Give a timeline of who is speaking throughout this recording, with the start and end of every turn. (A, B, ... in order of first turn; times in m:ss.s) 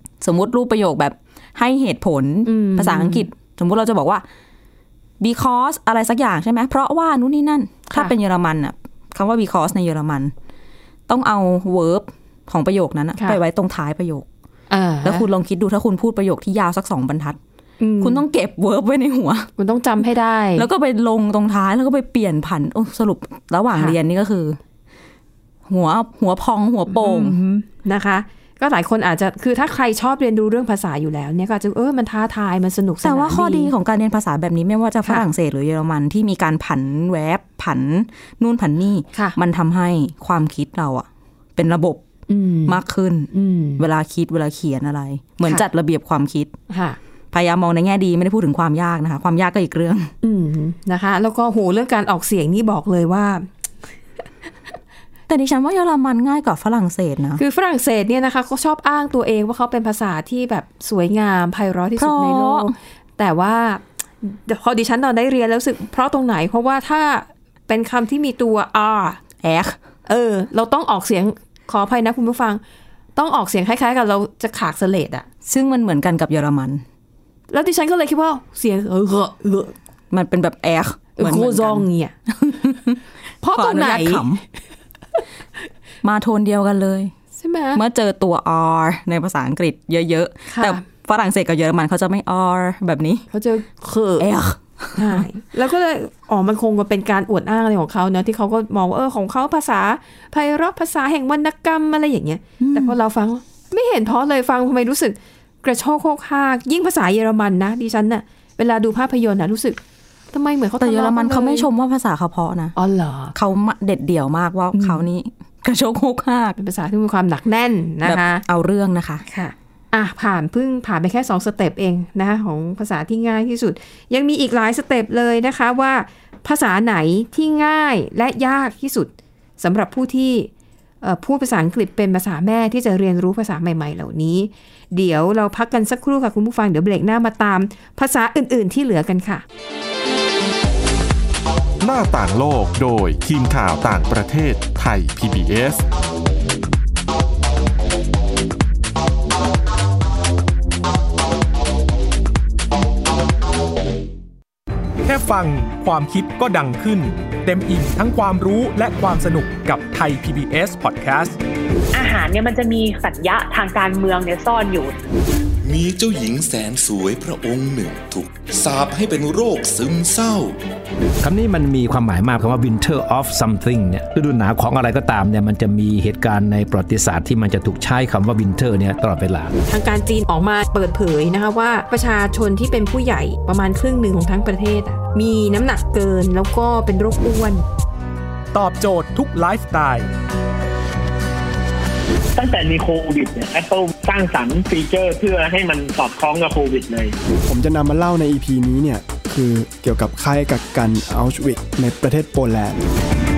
0:00.2-0:04.2 A
0:02.4-0:03.3 B
0:05.2-0:10.3 A
0:11.1-0:14.2 A
0:14.7-0:15.2 B
0:15.0-0:17.4 A
0:17.8-0:18.2 B
0:18.0-0:19.5 A
0:19.6-0:20.7 B
0:20.6-0:24.6 A
0:25.7-0:27.4 A
0:26.9-0:33.7 B
0:33.0-0:42.0 A
0:42.3-0:42.8 B
0:42.6-0:46.5 A
0:43.3-0:43.8 B
0:46.7-0:47.0 B
0:47.3-0:50.1 A
0:50.2-0:53.5 B
0:55.3-0:57.4 A
0:57.4-1:09.2 B
1:02.0-1:02.7 A
1:09.4-1:09.8 A
1:10.0-1:12.6 B
1:13.2-1:15.2 B
1:15.4-1:16.8 A
1:17.5-1:19.7 B
1:20.1-1:24.4 A
1:21.2-1:22.1 B
1:23.4-1:24.3 B
1:26.0-1:27.1 A
1:27.4-1:27.8 B
1:27.7-1:33.2 A
1:30.5-1:30.8 B
1:33.3-1:34.3 B
1:34.2-1:35.2 A
1:35.0-1:49.8 B
1:42.6-1:43.0 A
1:50.3-1:51.7 B
1:50.8-1:52.7 A
1:52.8-1:53.3 B
1:53.3-1:56.6 A
1:54.7-1:55.0 B
1:56.6-1:58.4 B
1:58.0-1:59.2 A
1:59.2-2:10.5 B
2:11.0-2:19.4 B
2:21.8-2:25.8 C
2:35.0-2:41.4 D
2:41.9-2:45.0 E
2:45.6-2:50.6 F
2:51.2-2:59.5 G
2:59.7-3:07.6 B
3:08.5-3:10.1 D
3:12.3-3:17.1 H
3:17.5-3:22.8 I